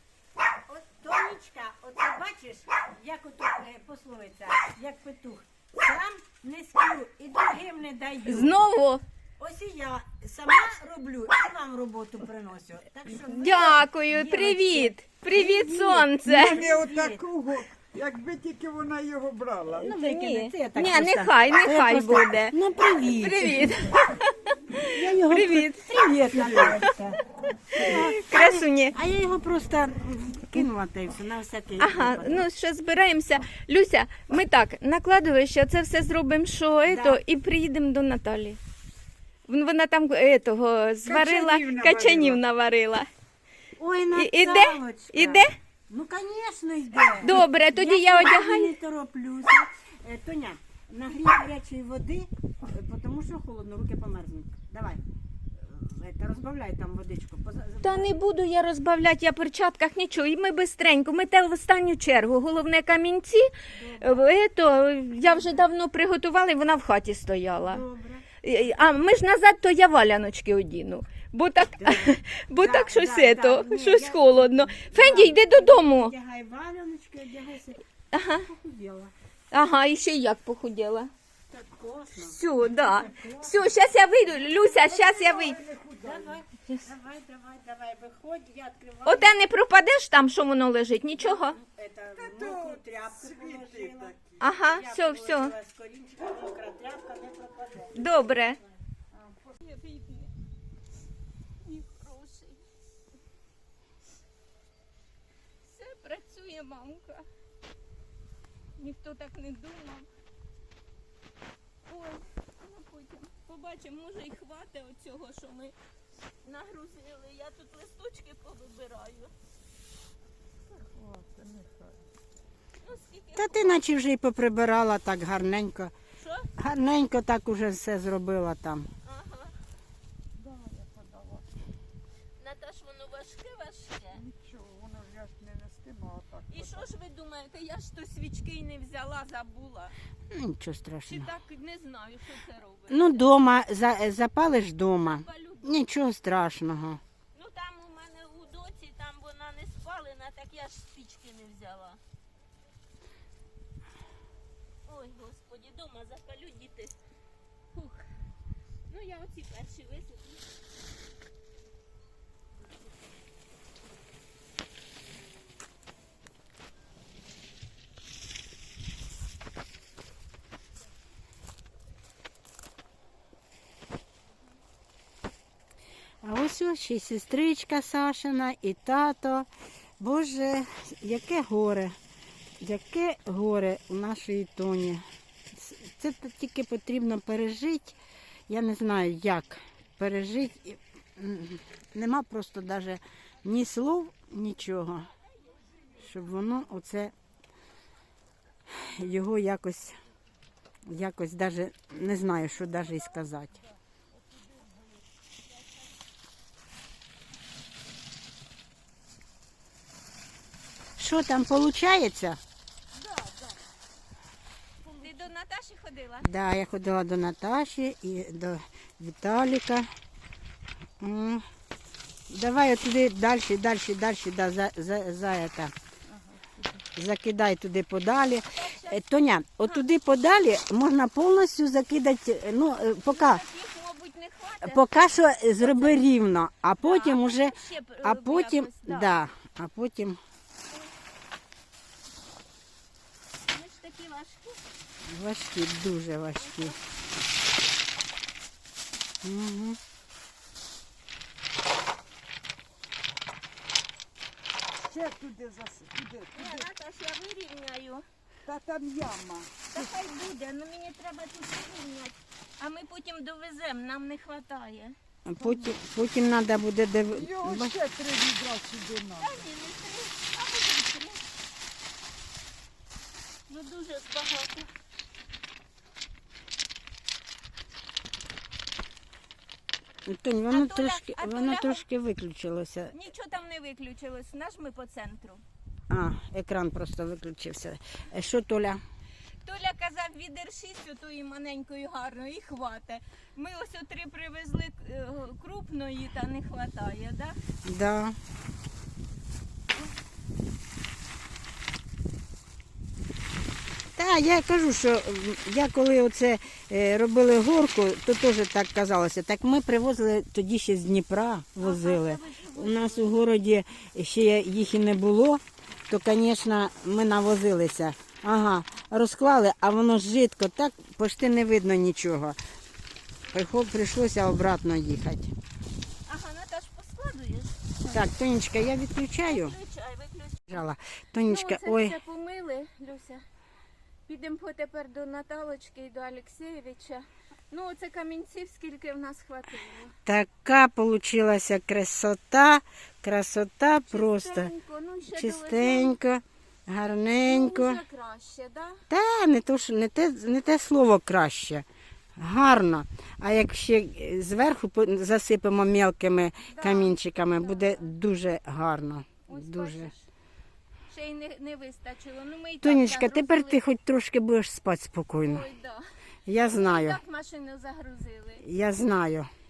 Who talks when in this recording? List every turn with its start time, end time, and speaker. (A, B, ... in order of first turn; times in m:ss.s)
0:00.7-0:08.5 A
0:08.2-0:09.0 B
0:09.4-0:17.2 A
0:13.2-0:16.7 B
0:16.3-0:19.9 C
0:19.8-0:23.7 A
0:19.8-0:22.5 B
0:23.2-0:25.8 B
0:24.9-0:27.2 A
0:26.3-0:26.8 C
0:26.7-0:26.9 B
0:27.7-0:32.4 A
0:27.8-0:29.0 B
0:31.8-0:38.6 B
0:36.8-0:37.2 A
0:39.5-0:43.1 B
0:41.0-0:42.4 C
0:43.8-0:55.0 A
0:44.1-0:45.5 B
0:47.2-0:48.8 B
0:55.5-0:58.1 A
0:57.8-1:07.8 B
1:03.7-1:04.3 A
1:05.1-1:05.7 A
1:07.6-1:08.2 A
1:08.4-1:16.1 B
1:11.8-1:19.1 A
1:18.1-1:18.5 B
1:19.5-1:21.1 B
1:21.5-1:23.6 A
1:22.2-1:25.6 B
1:24.6-1:26.4 C
1:25.9-1:29.4 A
1:29.0-1:31.6 B
1:31.2-1:37.9 A
1:32.2-1:34.2 C
1:34.4-1:35.5 B
1:37.9-1:38.6 B
1:39.1-1:39.5 C
1:39.6-1:40.3 B
1:41.6-1:42.6 B
1:45.6-1:47.2 B
1:48.8-1:50.1 B
1:51.8-1:55.7 B
1:56.4-1:59.3 B
2:00.7-2:02.0 C
2:02.8-2:03.9 B
2:03.4-2:05.9 A
2:06.2-2:06.5 B
2:06.6-2:08.9 A
2:09.0-2:09.5 B
2:10.4-2:11.5 C
2:12.4-2:14.2 B
2:14.1-2:16.9 C
2:16.5-2:19.9 B
2:20.3-2:21.3 A
2:21.1-2:23.3 B
2:22.9-2:27.0 A
2:25.0-2:25.8 B
2:27.3-2:32.0 B
2:34.9-2:36.9 B
2:37.7-2:38.0 B
2:38.9-2:40.4 B
2:56.2-2:59.5 A
3:00.0-3:02.0 A
3:02.6-3:08.0 A
3:08.5-3:15.1 A
3:15.9-3:17.1 A
3:18.7-3:20.0 A
3:20.8-3:23.6 A
3:31.0-3:32.4 A
3:33.0-3:33.6 C
3:34.8-3:35.2 C
3:35.0-3:36.3 B
3:36.2-3:39.9 A
3:41.0-3:41.4 A
3:42.3-3:45.7 A
3:47.0-3:53.4 A
3:48.5-3:49.0 B
3:53.1-3:54.8 B
3:54.6-4:00.2 A
3:55.6-3:56.0 B
3:56.8-3:59.1 B
4:03.5-4:04.6 B
4:05.0-4:06.7 A
4:06.4-4:06.8 B
4:09.2-4:09.8 A
4:14.8-4:16.7 C
4:16.3-4:18.0 B
4:18.4-4:19.9 C
4:19.7-4:25.0 B
4:25.2-4:27.7 A
4:25.4-4:25.8 C
4:27.1-4:29.4 C
4:29.1-4:31.2 B
4:33.5-4:34.7 B
4:40.0-4:42.9 A
4:40.5-4:41.8 B
4:42.9-4:45.4 B
4:45.9-4:48.8 A
4:49.4-4:57.3 B
4:57.6-4:58.2 A
5:04.0-5:22.4 A
5:11.6-5:13.2 B
5:23.3-5:25.3 A
5:26.0-5:28.0 B
5:27.9-5:29.6 A
5:29.2-5:30.6 B
5:30.5-5:32.0 A
5:31.2-5:33.2 B
5:34.1-5:39.9 B
5:40.0-5:44.5 A
5:43.9-5:46.0 B
5:45.1-5:47.8 A
5:47.2-5:48.8 B
5:48.9-5:51.6 A
5:52.2-5:59.9 A
5:56.5-5:57.9 B
5:59.3-6:00.1 B
6:00.9-6:03.6 B
6:02.6-6:05.4 A
6:05.2-6:05.8 B
6:06.2-6:07.0 A
6:06.4-6:08.4 B
6:08.4-6:09.3 A